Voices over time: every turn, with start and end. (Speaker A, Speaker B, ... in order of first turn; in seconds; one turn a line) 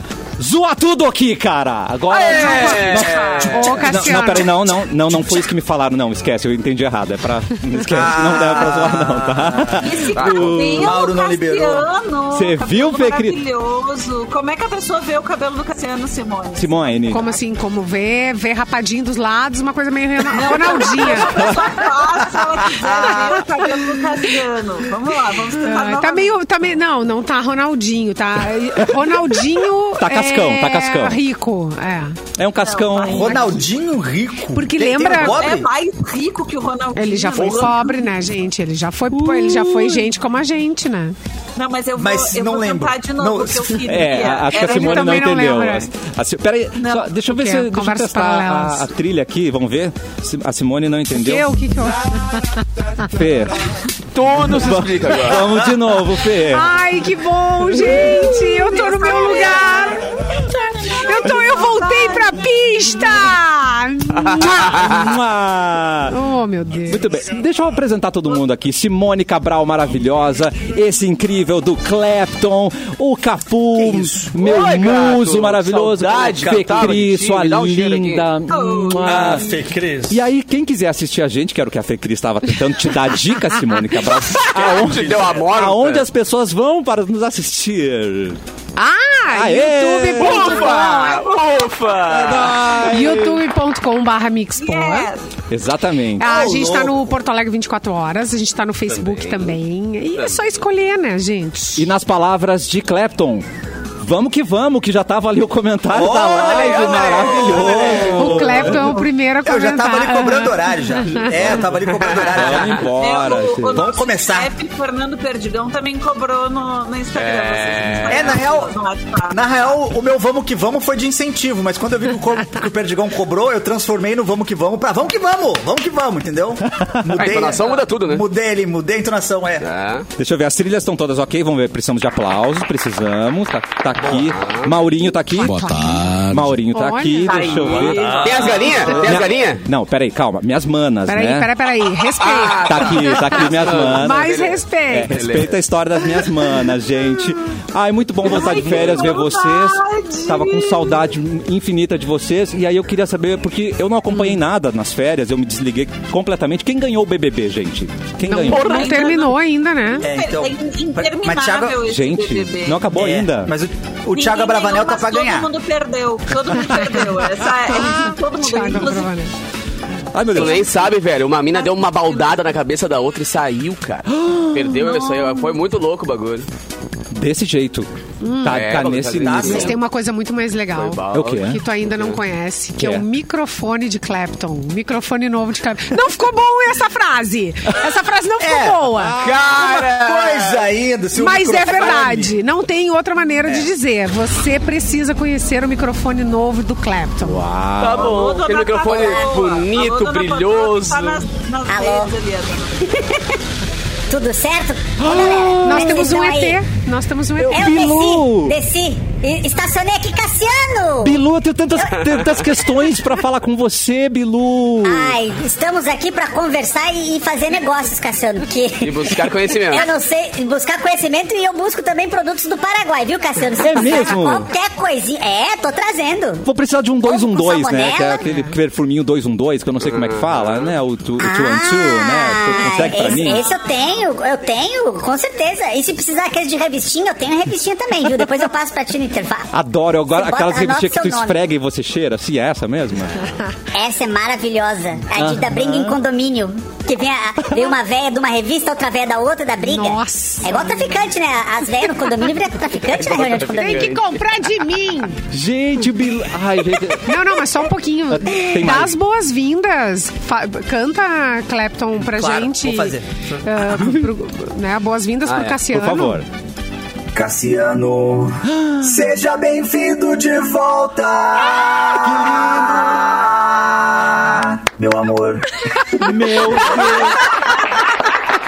Speaker A: 0.4-11.0
Speaker B: 2.1-3.7
Speaker C: 2.5-3.9
Speaker D: 3.5-4.7
Speaker E: 7.8-9.8
Speaker C: 9.8-17.4
Speaker B: 10.1-10.5
Speaker E: 10.4-11.9
Speaker A: 12.3-13.4
Speaker A: 16.6-17.2
Speaker D: 17.1-21.6
Speaker C: 20.3-26.4
Speaker E: 22.3-23.6
Speaker D: 25.6-32.2
Speaker A: 29.0-29.4
Speaker A: 29.9-31.2
Speaker A: 32.4-33.5
Speaker C: 32.6-33.6
Speaker E: 33.1-35.7
Speaker D: 34.5-35.4
Speaker C: 35.2-38.1
Speaker D: 36.9-41.1
Speaker A: 39.1-40.1
Speaker C: 41.5-45.3
Speaker E: 42.0-44.2
Speaker A: 43.9-51.6
Speaker D: 44.5-45.9
Speaker C: 46.8-47.1
Speaker D: 47.3-48.9
Speaker D: 51.1-52.6
Speaker A: 53.0-53.7
Speaker B: 54.1-55.7
Speaker A: 54.4-56.7
Speaker D: 56.3-65.0
Speaker C: 58.6-60.0
Speaker C: 60.8-62.4
Speaker A: 64.4-66.2
Speaker D: 66.1-67.0
Speaker A: 66.8-79.5
Speaker E: 73.8-74.3
Speaker B: 74.4-78.3
Speaker E: 76.5-77.0
Speaker C: 78.5-79.5
Speaker E: 79.0-80.2
Speaker A: 80.1-88.4
Speaker B: 84.3-86.1
Speaker E: 84.5-85.5
Speaker D: 88.8-91.2
Speaker A: 89.3-90.6
Speaker B: 90.2-92.6
Speaker A: 92.1-93.4
Speaker D: 92.7-95.1
Speaker C: 94.6-95.2
Speaker A: 95.5-96.5
Speaker D: 96.2-101.9
Speaker E: 96.2-97.1
Speaker B: 98.9-99.5
Speaker A: 101.8-103.4
Speaker A: 104.0-109.0
Speaker E: 105.9-108.9
Speaker B: 106.3-108.2
Speaker D: 108.1-111.3
Speaker E: 109.4-112.9
Speaker B: 111.9-112.8
Speaker A: 112.2-113.9
Speaker C: 112.8-119.4
Speaker E: 113.7-114.5
Speaker B: 117.2-118.4
Speaker E: 118.1-118.7
Speaker E: 119.3-129.7
Speaker A: 126.7-127.4
Speaker B: 127.2-128.2
Speaker B: 129.6-130.1
Speaker A: 130.2-141.5
Speaker B: 134.0-134.7
Speaker D: 135.3-136.1
Speaker D: 136.7-137.6
Speaker B: 137.3-139.6
Speaker E: 137.4-139.1
Speaker C: 137.6-138.6
Speaker D: 141.1-145.2
Speaker B: 142.2-145.6
Speaker A: 142.6-158.9
Speaker C: 148.3-150.9
Speaker B: 148.5-148.9
Speaker D: 158.2-160.1
Speaker B: 158.5-159.1
Speaker C: 158.5-159.4
Speaker C: 160.0-162.9
Speaker E: 160.0-161.8
Speaker A: 161.8-163.6
Speaker E: 162.9-165.5
Speaker C: 164.1-169.1
Speaker D: 167.8-169.3
Speaker A: 170.1-170.7
Speaker B: 170.3-176.4
Speaker C: 170.3-170.7
Speaker C: 171.5-172.4
Speaker A: 174.1-174.9
Speaker A: 177.1-179.7
Speaker D: 178.2-178.6
Speaker B: 178.5-179.7
Speaker E: 179.2-179.8
Speaker D: 179.4-189.1
Speaker B: 180.7-182.2
Speaker A: 181.1-181.6
Speaker A: 182.8-183.1
Speaker E: 188.4-192.3
Speaker B: 189.2-190.7
Speaker D: 191.2-197.4
Speaker A: 197.2-198.1
Speaker B: 197.8-201.2
Speaker C: 198.0-202.9
Speaker F: 201.7-202.1
Speaker F: 204.1-206.6
Speaker A: 205.0-206.1
Speaker D: 205.6-207.7
Speaker A: 207.4-208.6
Speaker F: 207.5-211.2
Speaker A: 211.0-215.2
Speaker F: 214.8-226.4
Speaker B: 218.8-219.9
Speaker A: 223.7-224.5
Speaker A: 226.4-233.4
Speaker F: 227.0-228.2
Speaker D: 228.2-228.5
Speaker B: 229.9-230.7
Speaker F: 231.2-239.5
Speaker A: 239.5-243.3
Speaker F: 240.1-241.3
Speaker F: 243.7-254.0
Speaker A: 245.1-246.0
Speaker D: 249.6-250.8
Speaker B: 252.9-254.2
Speaker D: 253.6-255.2
Speaker A: 255.3-257.4
Speaker D: 257.0-266.2
Speaker A: 258.1-259.0
Speaker E: 262.0-263.9
Speaker A: 265.2-266.2
Speaker E: 267.1-276.1
Speaker A: 268.4-269.0
Speaker A: 275.9-277.3